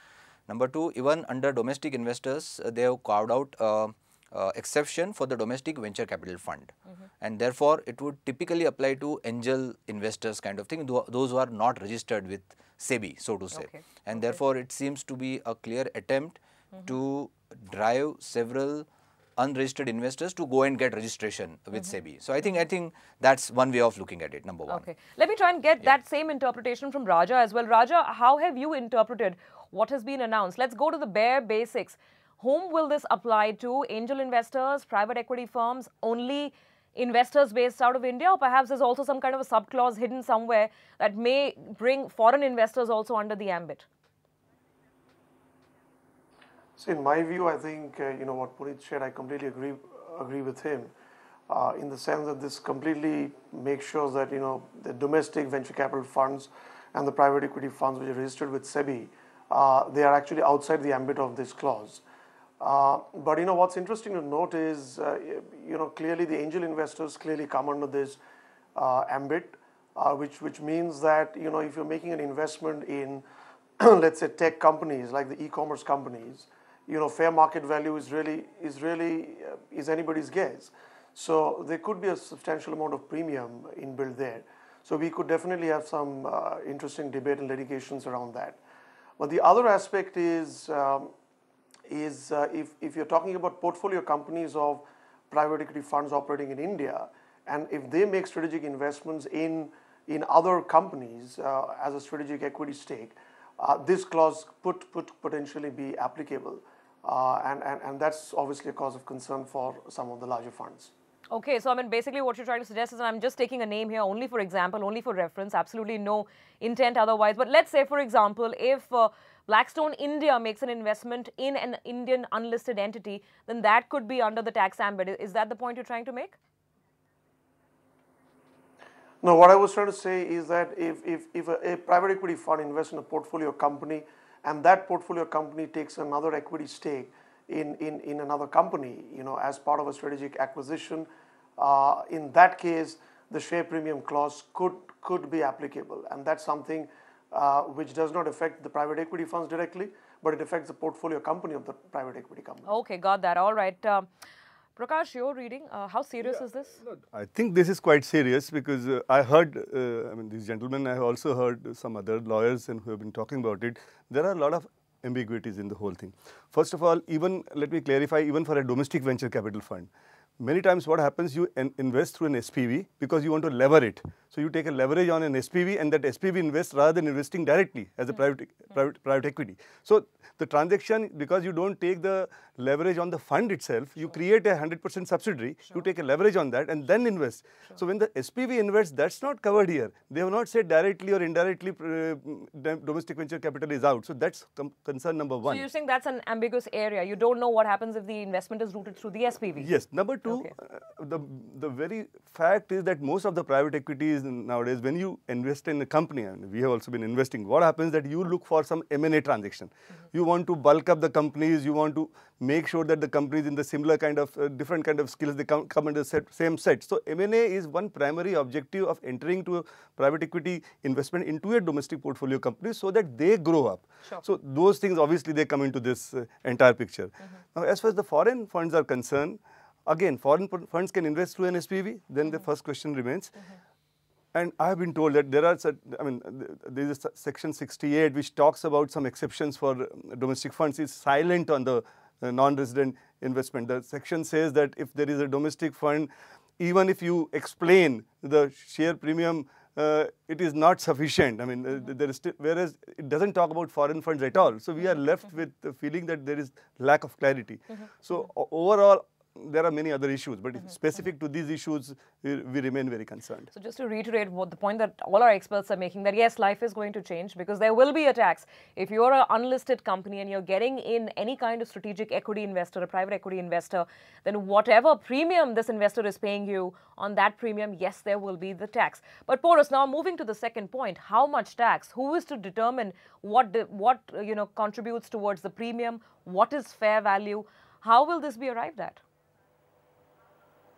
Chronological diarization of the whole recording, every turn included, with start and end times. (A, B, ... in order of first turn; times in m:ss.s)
0:00.5-0:18.9 A
0:13.5-0:14.0 B
0:19.4-0:24.8 A
0:24.7-0:43.8 B
0:46.8-0:50.9 C
0:51.5-1:02.0 C
1:02.6-1:08.2 C
1:08.7-1:13.2 C
1:13.8-1:28.6 C
1:29.2-1:31.1 C
1:31.9-1:50.9 C
1:51.3-2:06.4 B
2:09.2-2:32.7 C
2:32.6-2:34.1 B
2:34.8-2:36.8 B
2:36.8-2:49.9 D
2:50.4-3:15.6 D
3:15.4-3:19.7 B
3:19.6-3:53.4 D
3:54.3-4:23.5 D
4:23.5-4:49.0 B